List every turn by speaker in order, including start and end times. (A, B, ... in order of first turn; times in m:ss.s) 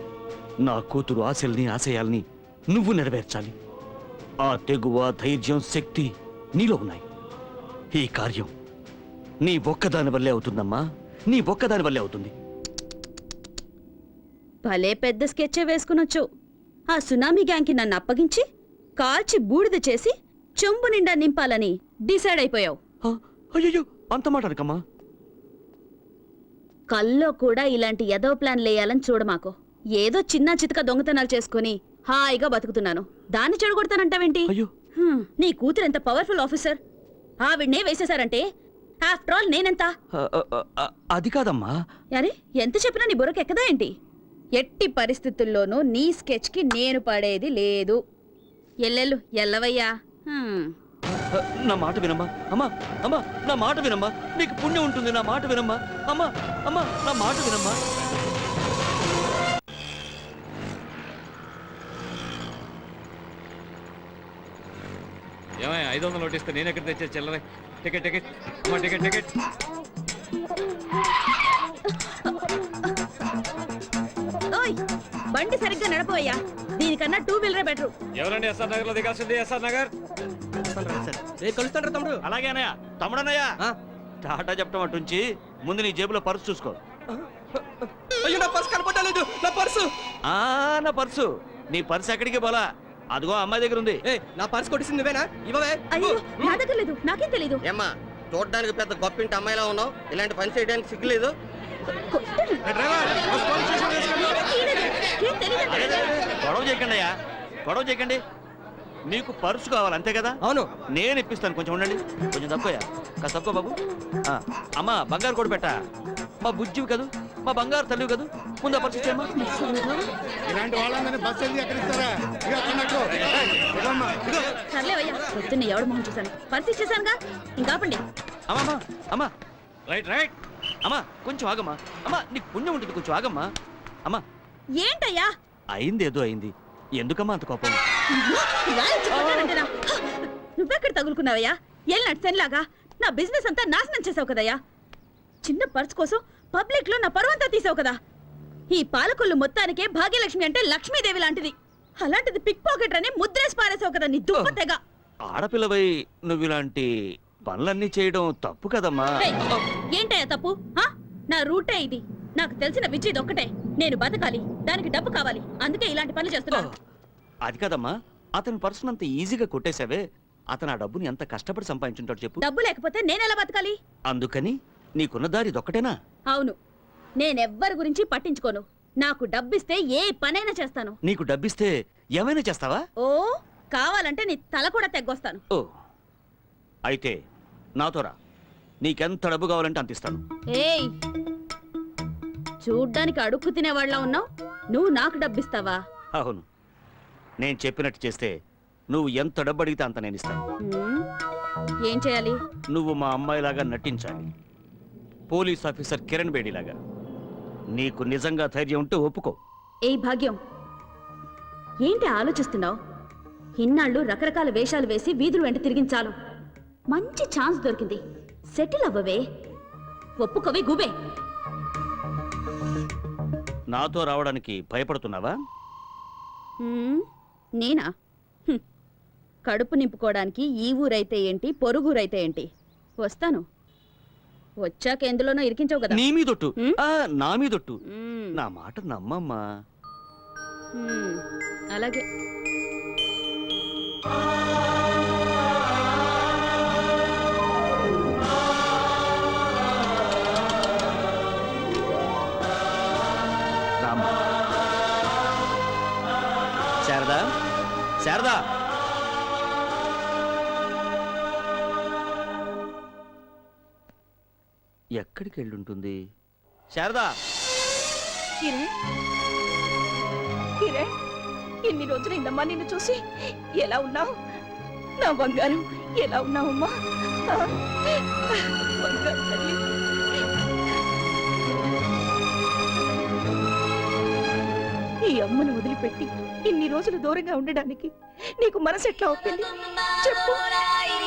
0:00.6-0:03.5 A
0:04.4-0:07.0 A
0:07.9-0:08.5 A
0:09.4-0:12.3 A
0:14.6-0:16.2 B
0:16.9-0:18.4 B
0:19.0-0:22.8 B
0:23.1-0:24.8 A
0:26.9-0:34.5 B
0:35.0-0:36.8 B
0:37.4-0:38.4 B
0:39.0-0:39.9 B
0:40.1-0:41.7 A
0:42.1-0:43.9 B
0:44.6-0:48.0 B
0:48.8-0:50.7 B
0:51.4-0:57.8 A
1:05.6-1:09.3 C
1:12.0-1:12.3 B
1:15.3-1:17.9 B
1:18.2-1:19.9 C
1:20.7-1:22.2 D
1:22.2-1:23.5 A
1:24.2-1:26.8 A
1:28.2-1:29.9 D
1:30.3-1:32.6 A
1:33.1-1:34.0 A
1:34.1-1:36.5 D
1:35.9-1:37.6 B
1:37.6-1:41.3 E
1:42.1-1:46.1 B
1:45.7-1:47.1 A
1:47.6-1:48.2 A
1:49.1-1:50.4 A
1:50.9-1:55.8 A
1:56.4-1:59.3 A
1:59.5-2:00.0 B
2:00.5-2:03.0 F
2:03.8-2:04.2 F
2:04.7-2:08.0 B
2:08.5-2:09.3 A
2:09.9-2:10.3 C
2:10.8-2:13.5 A
2:14.8-2:15.3 B
2:15.7-2:17.8 A
2:18.1-2:24.6 B
2:19.2-2:19.5 A
2:25.4-2:28.0 B
2:28.7-2:34.8 B
2:35.3-2:36.8 A
2:37.4-2:39.1 A
2:40.0-2:46.7 B
2:47.4-2:52.4 A
2:52.4-2:53.8 B
2:54.1-2:55.9 A
2:56.3-2:56.6 B
2:57.2-3:01.0 B
3:01.0-3:02.8 A
3:03.0-3:05.4 B
3:06.9-3:07.1 A
3:07.8-3:08.1 A
3:08.8-3:10.2 A
3:10.5-3:10.9 B
3:12.6-3:15.8 B
3:16.1-3:16.4 A
3:17.4-3:18.3 A
3:18.9-3:20.4 A
3:20.6-3:21.0 B
3:21.9-3:22.4 B
3:22.7-3:24.3 A
3:25.3-3:26.8 A
3:27.8-3:29.4 A
3:29.9-3:30.4 B
3:31.8-3:32.7 B
3:33.6-3:36.1 B
3:36.9-3:38.0 B
3:38.6-3:39.2 B
3:40.2-3:40.9 B
3:43.7-3:45.3 A
3:46.6-3:47.0 B
3:47.6-3:47.9 B
3:49.5-3:52.4 B
3:53.0-3:53.4 B
3:54.6-3:56.0 B
3:55.9-3:57.8 A
3:57.9-3:58.3 B
3:58.4-3:59.4 A
4:00.8-4:01.2 B
4:01.7-4:02.0 B
4:13.8-4:14.2 A
4:16.8-4:17.2 A
4:18.0-4:18.4 A
4:25.0-4:25.9 A
4:26.7-4:27.1 A
4:28.4-4:28.7 G
4:30.6-4:30.9 G
4:31.6-4:33.0 G
4:33.6-4:34.1 G
4:35.0-4:36.7 G
4:37.3-4:39.6 G
4:45.0-4:49.5 G
4:50.0-4:50.4 G